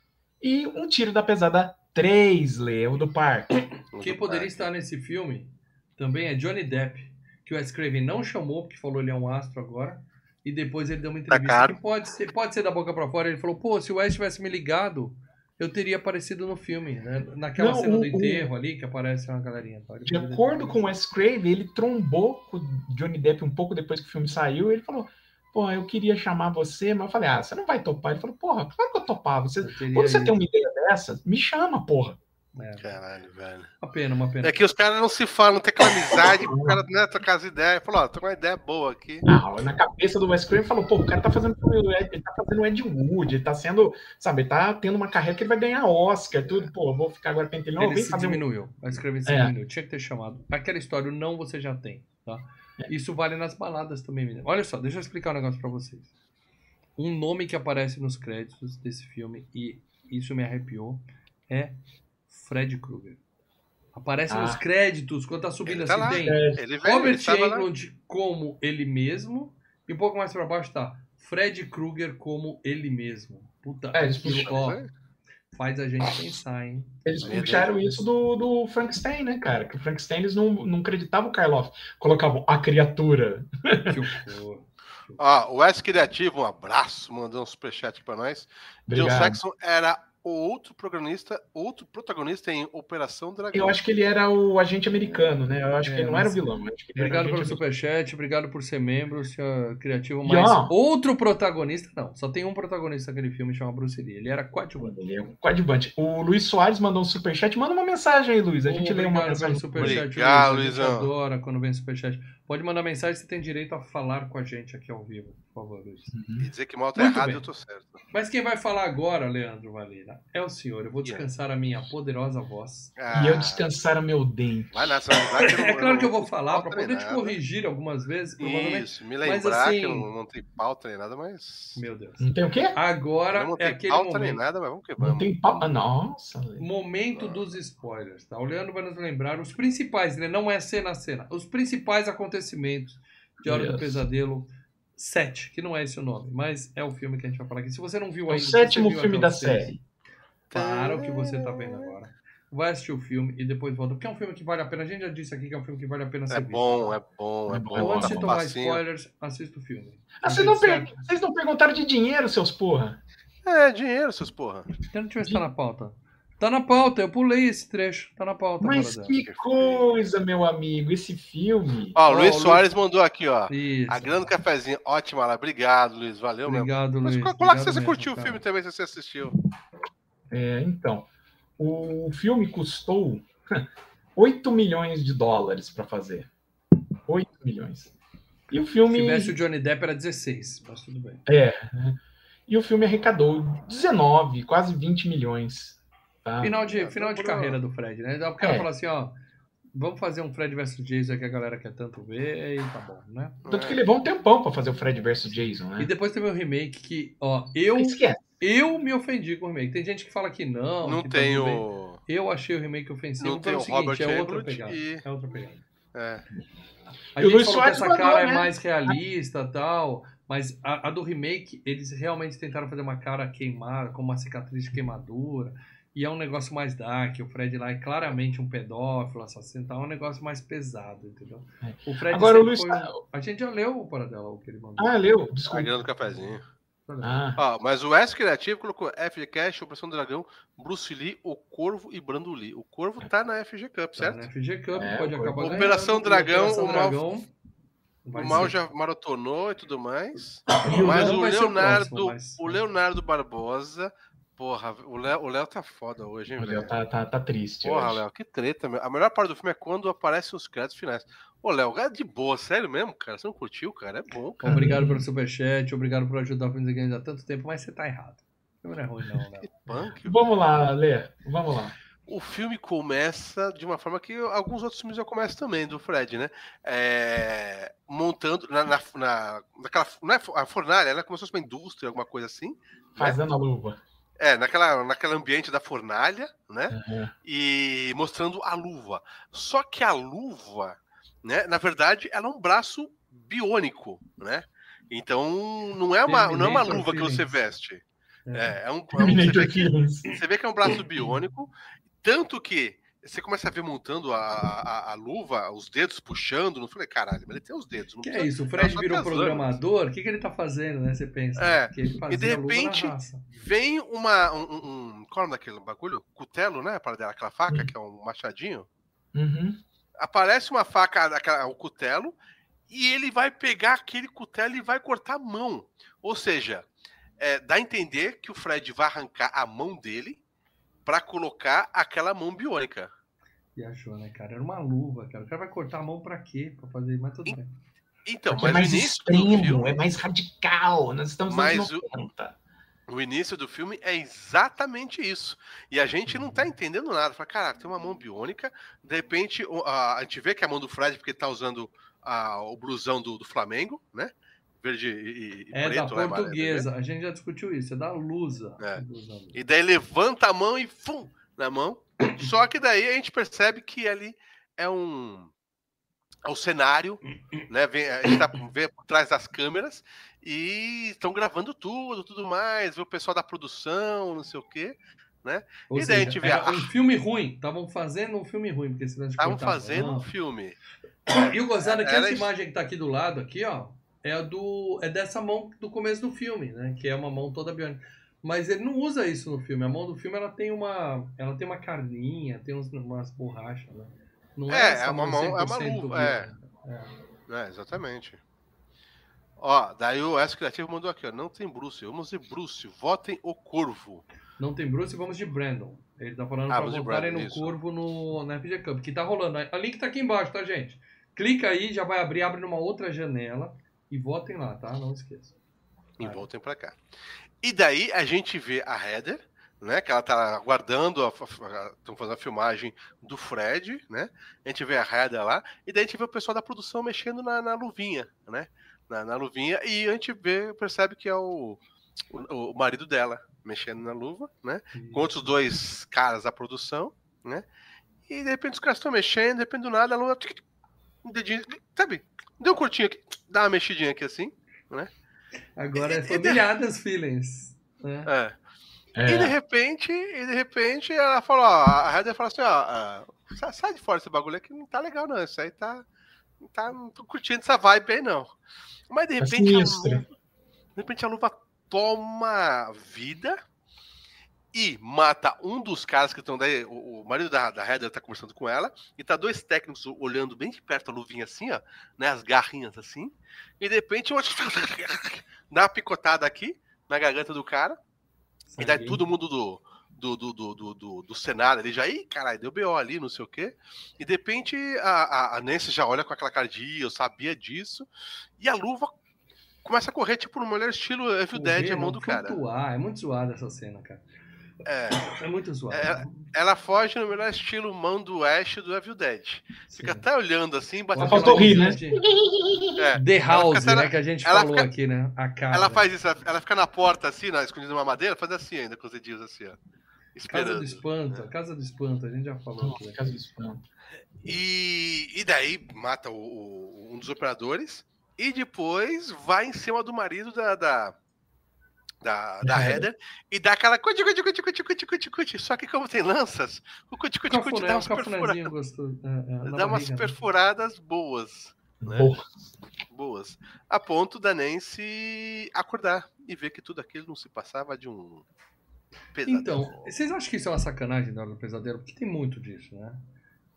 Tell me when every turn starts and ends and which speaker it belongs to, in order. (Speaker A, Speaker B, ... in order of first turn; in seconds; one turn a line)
Speaker A: 0.4-3.5
Speaker B: 3.5-20.8
Speaker C: 3.9-4.5
Speaker C: 11.3-11.8
Speaker A: 17.6-18.5
Speaker A: 20.1-32.2
Speaker B: 29.6-30.4
Speaker B: 32.5-32.9
Speaker C: 32.8-33.7
Speaker B: 33.8-34.6
Speaker C: 34.4-39.2
Speaker A: 36.2-36.8
Speaker A: 39.2-48.4
Speaker B: 47.8-56.1
Speaker A: 49.2-49.5
Speaker B: 57.0-63.2
Speaker B: 63.9-74.9
Speaker A: 64.3-64.6
Speaker C: 65.7-67.7
Speaker A: 66.0-66.6
Speaker A: 73.9-74.5
Speaker C: 74.4-74.9
Speaker B: 75.5-78.1
Speaker A: 77.0-84.0
Speaker C: 77.2-77.7
Speaker B: 83.9-85.2
Speaker C: 85.2-93.8
Speaker A: 88.9-89.4
Speaker A: 93.5-97.6
Speaker B: 95.8-105.0
Speaker A: 100.2-100.7
Speaker A: 104.8-110.0
Speaker B: 108.6-116.2
Speaker C: 109.8-111.1
Speaker A: 116.1-116.5
Speaker C: 116.4-118.0
Speaker B: 116.9-117.4
Speaker B: 118.1-122.9
Speaker C: 123.0-123.7
Speaker A: 123.1-124.7
Speaker C: 124.7-127.4
Speaker B: 125.4-130.1
Speaker C: 128.4-131.8
Speaker B: 131.7-134.4
Speaker A: 132.2-132.8
Speaker C: 133.3-135.3
Speaker A: 135.0-136.7
Speaker B: 136.6-149.8
Speaker C: 137.1-137.4
Speaker A: 143.4-144.0
Speaker A: 148.3-149.8
Speaker C: 150.5-151.9
Speaker B: 150.5-156.9
Speaker C: 156.3-158.8
Speaker A: 157.5-158.3
Speaker B: 157.8-161.0
Speaker A: 160.2-163.0
Speaker C: 163.4-164.7
Speaker B: 164.9-169.2
Speaker A: 168.6-172.0
Speaker C: 169.1-169.9
Speaker C: 171.9-179.3
Speaker B: 172.1-172.7
Speaker B: 173.5-174.3
Speaker B: 176.4-178.4
Speaker A: 180.3-186.3
Speaker A: 187.1-187.9
Speaker A: 188.5-189.3
Speaker B: 188.9-191.2
Speaker A: 191.2-196.5
Speaker B: 196.4-199.1
Speaker C: 196.7-197.6
Speaker A: 198.4-198.7
Speaker B: 199.7-203.4
Speaker C: 203.4-203.8
Speaker A: 203.5-205.9
Speaker B: 205.8-215.6
Speaker A: 207.7-208.2
Speaker C: 210.8-212.0
Speaker C: 213.2-215.0
Speaker C: 215.9-216.2
Speaker B: 217.2-235.1
Speaker A: 217.2-219.0
Speaker A: 231.6-233.0
Speaker A: 234.8-235.7
Speaker C: 235.4-236.4
Speaker B: 236.9-237.2
Speaker A: 237.0-237.4
Speaker C: 237.4-244.3
Speaker B: 243.9-247.3
Speaker A: 244.8-245.4
Speaker C: 245.4-247.0
Speaker B: 248.0-248.5
Speaker C: 248.1-256.7
Speaker B: 250.5-252.6
Speaker A: 250.6-251.2
Speaker A: 256.4-258.0
Speaker C: 257.6-264.4
Speaker B: 264.4-269.9
Speaker A: 264.4-265.0
Speaker C: 269.4-270.3
Speaker A: 270.0-271.7
Speaker C: 272.1-283.2
Speaker A: 283.0-283.8
Speaker C: 284.2-301.5
Speaker A: 286.7-287.1
Speaker B: 296.1-297.4
Speaker B: 298.2-298.5
Speaker A: 298.9-300.0
Speaker C: 302.0-309.5
Speaker B: 308.0-313.2
Speaker C: 311.4-318.7
Speaker A: 319.1-319.6
Speaker C: 320.0-322.1
Speaker C: 322.7-326.6
Speaker C: 327.2-330.2
Speaker C: 330.9-332.9
Speaker B: 333.6-337.5
Speaker C: 338.1-339.8
Speaker A: 338.3-342.4
Speaker C: 341.3-341.9
Speaker C: 342.9-356.6
Speaker A: 346.1-346.5
Speaker B: 355.5-359.4
Speaker C: 359.3-365.3
Speaker C: 366.2-376.7
Speaker B: 375.7-380.1
Speaker C: 379.2-380.6
Speaker B: 381.1-396.9
Speaker C: 381.1-382.3
Speaker C: 394.5-396.3
Speaker C: 397.3-398.2
Speaker C: 399.4-404.0
Speaker B: 404.4-415.3
Speaker C: 406.5-407.5
Speaker C: 416.0-416.8
Speaker B: 416.0-416.2
Speaker C: 417.4-437.4
Speaker B: 434.7-435.3
Speaker C: 438.1-440.4
Speaker C: 441.0-444.9
Speaker B: 445.6-448.1
Speaker C: 445.7-446.4
Speaker C: 448.1-448.3
Speaker A: 448.9-449.3
Speaker C: 449.1-455.8
Speaker C: 456.4-458.3
Speaker C: 458.9-460.1
Speaker A: 459.2-460.0
Speaker C: 460.8-463.4
Speaker C: 464.5-477.8
Speaker B: 478.5-479.0
Speaker C: 478.6-487.9
Speaker C: 488.4-488.9
Speaker C: 489.6-492.4
Speaker B: 491.3-494.0
Speaker C: 494.6-495.1
Speaker B: 494.9-496.3
Speaker C: 495.7-501.6
Speaker B: 499.7-500.0
Speaker B: 500.9-502.0
Speaker A: 501.0-502.8
Speaker C: 502.8-504.7
Speaker B: 503.0-505.8
Speaker C: 505.5-509.6
Speaker C: 510.1-511.3
Speaker B: 510.3-513.3
Speaker A: 512.6-513.6
Speaker C: 514.2-520.9
Speaker C: 522.0-528.5
Speaker A: 522.4-522.9
Speaker B: 527.3-530.1
Speaker C: 529.5-532.1
Speaker A: 531.8-532.4
Speaker C: 532.9-538.2
Speaker C: 539.1-539.9
Speaker B: 539.2-543.0